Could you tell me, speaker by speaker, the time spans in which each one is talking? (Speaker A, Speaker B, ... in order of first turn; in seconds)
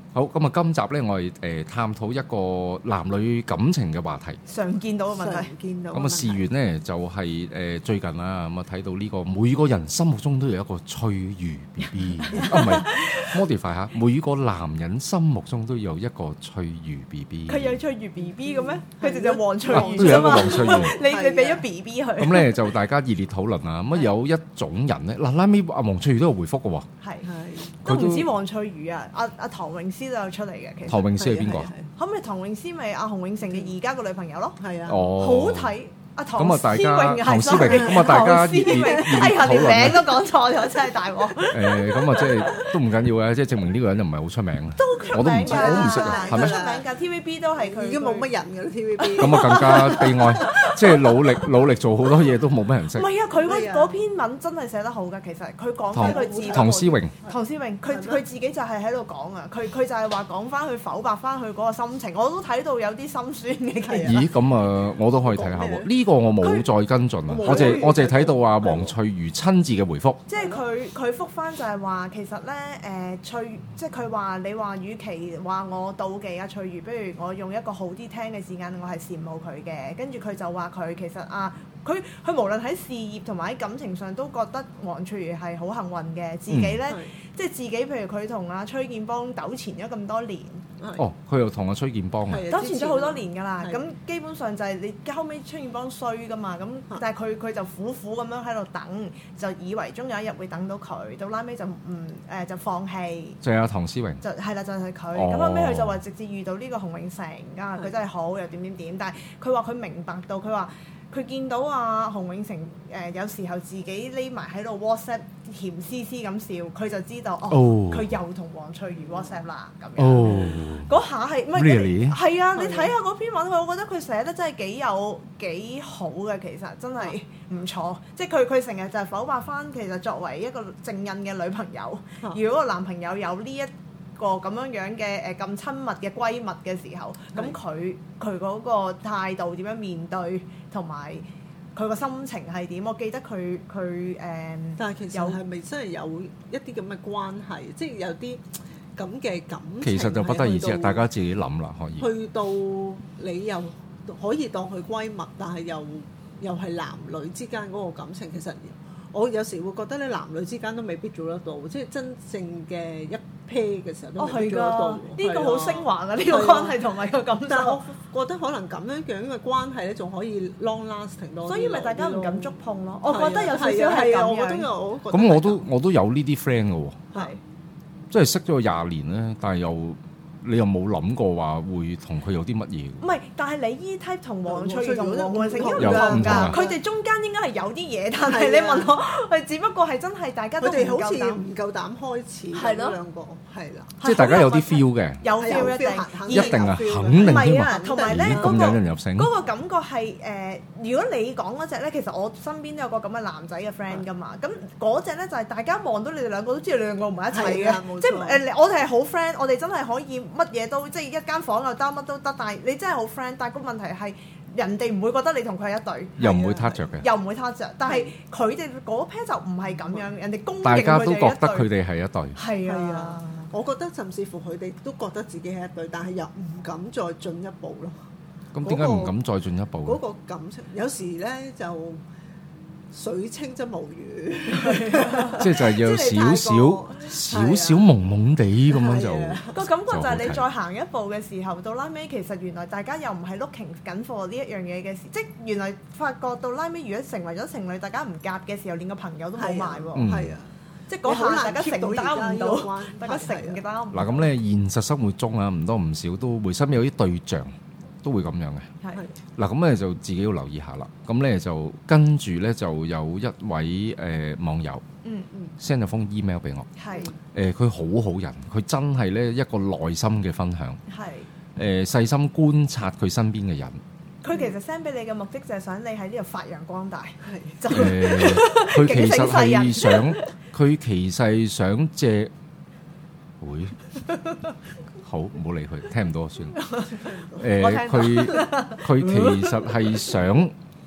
Speaker A: 0.1-4.4, 5.9-17.8, 19.7-21.0, 22.2-26.9, 27.9-28.3, 30.9-31.7, 34.9-35.7, 36.4-40.1, 41.5-46.6, 49.2-53.1, 55.9-57.1, 64.0-70.2, 86.5-86.8, 91.0-92.4, 103.4-104.2, 105.1-106.0, 117.5-118.1, 120.0-120.9, 121.5-122.2, 149.8-152.1, 175.1-177.0, 178.1-183.0, 185.8-186.6, 194.0-195.2, 196.3-199.3, 216.2-217.1, 220.6-222.4, 228.5-230.0, 235.3-240.4, 249.9-250.3, 253.9-258.7, 259.4-264.8, 265.6-266.7, 267.3-270.8, 271.5-273.8, 277.7-282.3, 283.4-283.8, 285.0-286.6, 287.4-290.5
Speaker B: 4.5-5.5, 12.2-13.2, 17.5-22.7, 27.0-27.3, 27.8-31.1, 31.9-42.5, 44.8-48.3, 49.0-51.2, 52.9-64.3, 67.3-68.2, 70.3-90.6, 92.5-103.4, 104.2-145.4, 164.2-167.8, 171.5-174.7, 177.1-177.4, 183.0-191.4, 192.5-193.0, 194.0-216.3, 217.0-221.7, 222.3-223.5, 234.6-235.4, 239.5-250.1, 250.9-254.3, 265.0-265.3, 266.8-267.1, 270.9-271.3, 274.2-280.3, 286.6-289.6
Speaker C: 5.1-6.5, 12.3-12.8, 18.2-21.6, 27.2-27.8, 31.2-31.9, 34.6-35.1, 37.5-38.1, 38.7-39.2, 42.1-42.5, 45.0-46.9, 47.6-50.6, 53.3-54.0, 55.9-58.2, 63.8-64.3, 65.1-65.9, 67.4-68.9, 70.3-70.6, 86.9-87.1, 90.8-91.0, 92.3-93.8, 122.5-122.9, 137.3-137.6, 144.8-151.1, 152.0-166.8, 167.4-175.6, 184.5-186.8, 188.2-188.9, 190.6-193.9, 195.4-198.6, 207.3-208.4, 216.2-216.9, 219.8-220.2, 222.6-228.0, 228.6-229.1, 229.8-232.0, 232.9-237.8, 238.7-239.6, 249.4-253.6, 277.2-277.9, 287.0-288.2